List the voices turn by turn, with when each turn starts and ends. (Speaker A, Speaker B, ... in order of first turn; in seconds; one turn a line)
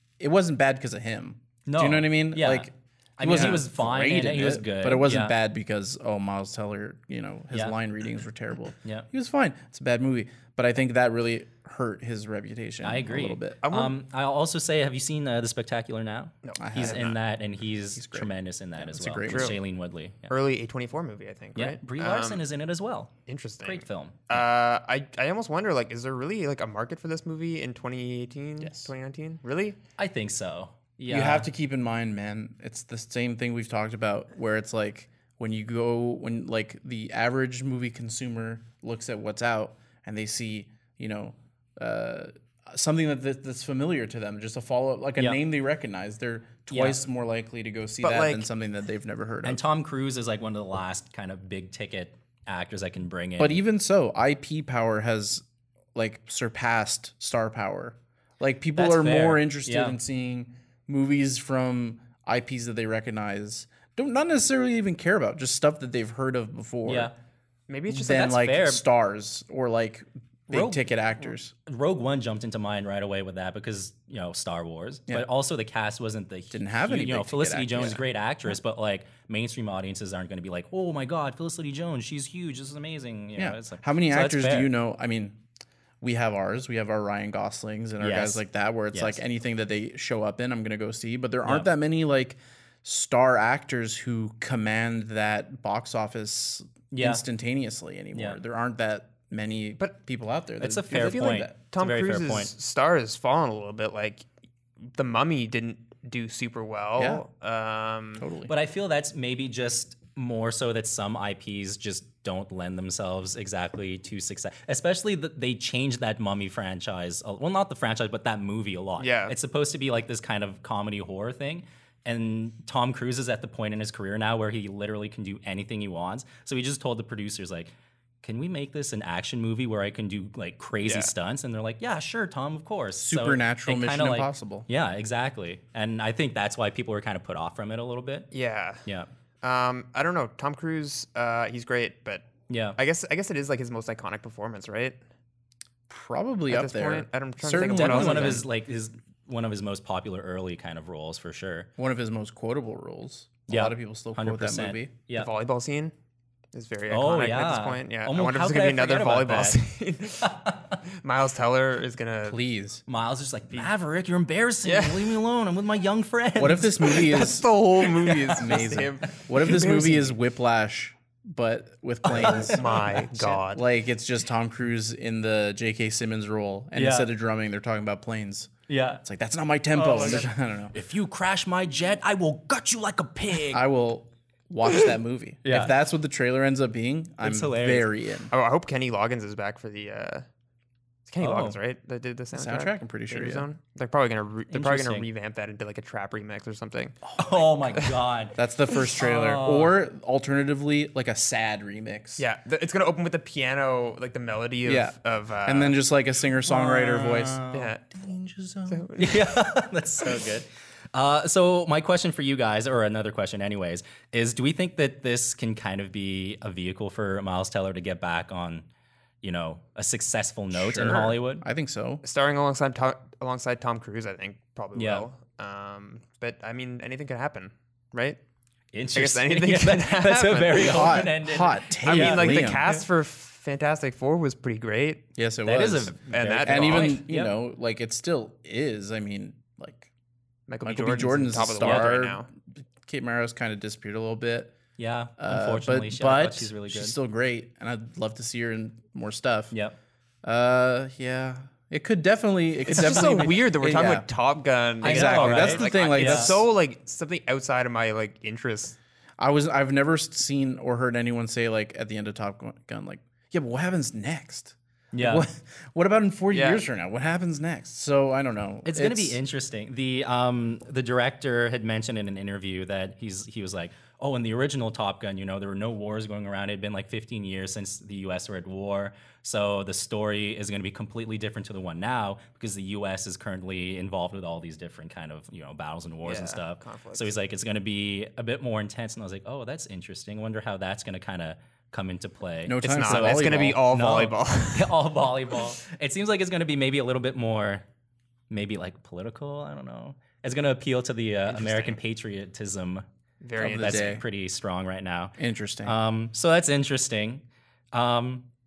Speaker A: 0.2-13.6
Speaker B: 1.6-5.3
Speaker B: 12.8-20.3
Speaker C: 13.6-13.9
Speaker C: 16.4-17.1
Speaker A: 16.6-17.2
Speaker A: 17.9-19.6
Speaker C: 19.3-19.6
Speaker C: 20.3-22.4
Speaker B: 21.6-23.1
Speaker C: 23.3-29.8
Speaker B: 23.6-24.4
Speaker A: 28.6-28.9
Speaker B: 30.0-31.5
Speaker A: 31.1-49.6
Speaker B: 46.7-47.0
Speaker C: 48.0-48.5
Speaker B: 49.4-53.6
Speaker A: 53.4-55.4
Speaker A: 55.9-67.1
Speaker B: 58.8-60.0
Speaker B: 66.8-67.1
Speaker C: 67.7-68.3
Speaker A: 67.9-71.5
Speaker B: 68.0-68.8
Speaker B: 70.5-70.9
Speaker B: 71.7-84.7
Speaker A: 76.5-78.0
Speaker A: 83.3-85.4
Speaker A: 86.0-101.5
Speaker B: 88.0-89.2
Speaker B: 96.9-97.2
Speaker B: 98.1-98.4
Speaker B: 100.6-102.5
Speaker C: 100.9-104.2
Speaker C: 104.8-108.3
Speaker A: 107.0-107.2
Speaker A: 108.2-108.5
Speaker B: 108.5-138.3
Speaker C: 119.0-119.3
Speaker C: 130.8-131.1
Speaker A: 133.0-134.7
Speaker C: 138.3-138.8
Speaker C: 139.4-145.0
Speaker B: 142.5-142.8
Speaker A: 145.9-148.4
Speaker C: 146.5-148.4
Speaker B: 147.7-151.7
Speaker A: 151.8-154.9
Speaker B: 153.5-155.3
Speaker C: 155.1-155.9
Speaker C: 156.5-162.4
Speaker B: 156.9-159.6
Speaker B: 160.2-160.7
Speaker A: 162.2-162.8
Speaker B: 162.9-167.1
Speaker C: 164.6-165.2
Speaker A: 166.4-180.7
Speaker C: 166.8-170.2
Speaker B: 172.1-172.6
Speaker C: 172.2-173.6
Speaker B: 176.7-177.1
Speaker B: 178.7-179.0
Speaker B: 179.7-183.7
Speaker A: 183.5-188.3
Speaker B: 185.4-185.7
Speaker B: 187.2-187.9
Speaker C: 188.3-190.2
Speaker C: 191.1-197.1
Speaker B: 191.2-191.6
Speaker A: 192.3-193.4
Speaker B: 194.5-195.1
Speaker B: 197.1-198.4
Speaker A: 198.3-202.2
Speaker B: 198.9-199.7
Speaker C: 202.2-205.8
Speaker A: 204.6-208.9
Speaker B: 206.6-207.0
Speaker C: 206.7-207.8
Speaker C: 208.7-209.3
Speaker B: 209.0-218.7
Speaker B: 219.2-221.4
Speaker A: 220.5-222.0
Speaker C: 222.0-228.2
Speaker B: 224.7-225.1
Speaker B: 228.7-232.8
Speaker C: 228.9-231.0
Speaker A: 230.5-232.6
Speaker C: 231.8-235.1
Speaker A: 235.1-239.9
Speaker B: 235.4-237.3
Speaker C: 236.1-237.0
Speaker C: 240.5-242.3
Speaker A: 240.6-242.3
Speaker B: 241.6-241.9
Speaker A: 242.8-244.5
Speaker B: 244.8-246.9
Speaker A: 245.2-249.5
Speaker A: 250.2-254.1
Speaker C: 252.7-258.8
Speaker A: 254.8-256.4
Speaker B: 254.8-256.4
Speaker A: 259.2-269.2
Speaker B: 264.9-265.3
Speaker C: 266.3-266.6
Speaker B: 268.6-297.6
Speaker C: 286.0-287.1
Speaker A: 292.4-293.6
Speaker C: 292.6-294.7
Speaker B: 298.3-302.8
Speaker C: 301.3-301.8
Speaker C: 303.2-304.0
Speaker A: 303.4-304.0
Speaker B: 303.4-308.3
Speaker A: 305.2-305.7